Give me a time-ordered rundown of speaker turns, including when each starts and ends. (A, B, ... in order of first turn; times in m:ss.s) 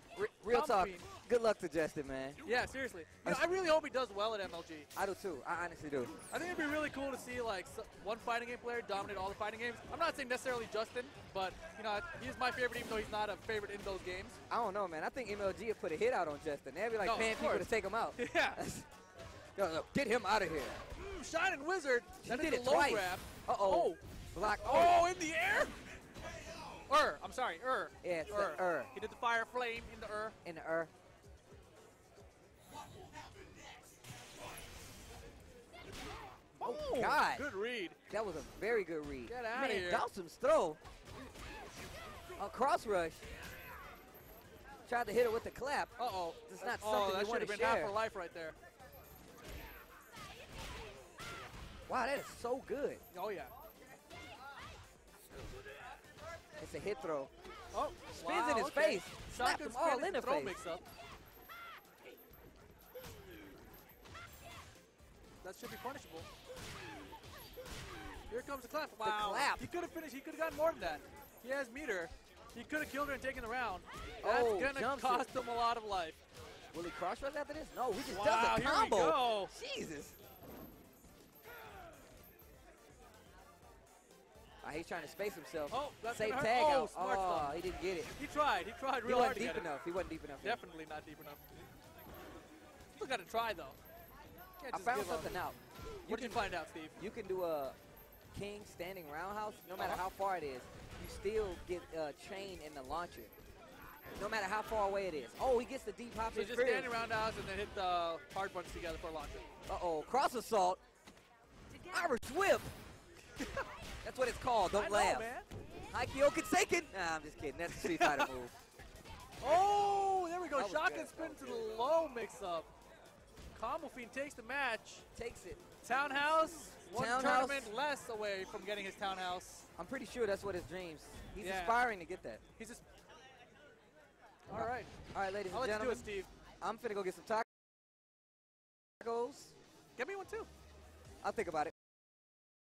0:00.2-0:02.4 A
0:00.5-0:01.1 B
0:02.4-0:04.9 B
0:05.0-0:06.1 A
0:06.3-0:14.4 B
0:14.5-0:18.9 A
0:17.0-0:18.6 B
0:19.6-0:20.8 A
0:21.0-0:24.0 B
0:22.2-0:25.1 A
0:24.6-0:25.8 B
0:26.9-0:30.4 B
0:28.0-0:28.9 A
0:30.4-0:30.9 A
0:36.6-0:38.0 B
0:36.6-0:37.5 A
0:38.1-0:40.8 A
0:39.3-0:40.1 B
0:42.4-0:43.3 A
0:44.9-0:46.0 A
0:46.0-0:48.6 B
0:46.5-0:47.9 A
0:51.9-0:53.0 A
0:53.1-0:53.5 B
0:56.6-0:57.3 A
0:57.7-1:00.8 B
0:58.1-1:00.6 A
1:05.4-1:06.3 B
1:08.3-1:16.2 B
1:09.0-1:09.7 A
1:14.2-1:15.3 A
1:16.7-1:20.2 A
1:18.1-1:19.5 B
1:24.6-1:28.1 A
1:25.7-1:27.6 B
1:28.2-1:29.7 B
1:29.0-1:30.6 A
1:30.4-1:31.4 B
1:33.0-1:33.8 B
1:34.6-1:35.4 B
1:34.7-1:36.5 A
1:36.1-1:37.0 B
1:37.0-1:37.8 A
1:38.3-1:43.3 A
1:39.8-1:40.0 B
1:44.2-1:46.9 A
1:46.3-1:49.4 B
1:49.7-1:50.8 A
1:51.7-1:52.1 B
1:51.9-1:52.7 A
1:53.4-1:53.7 B
1:54.0-1:55.3 A
1:54.7-1:55.5 B
1:55.9-1:58.5 A
1:57.7-1:58.3 B
1:59.4-2:02.7 B
2:00.5-2:01.7 A
2:03.5-2:05.1 B
2:05.2-2:05.6 A
2:05.8-2:09.7 B
2:06.9-2:07.7 A
2:09.8-2:12.4 A
2:11.4-2:11.8 B
2:14.5-2:14.9 B
2:14.5-2:16.1 A
2:15.5-2:16.3 B
2:16.6-2:17.5 A
2:19.0-2:19.5 A
2:20.0-2:20.5 B
2:21.2-2:21.7 A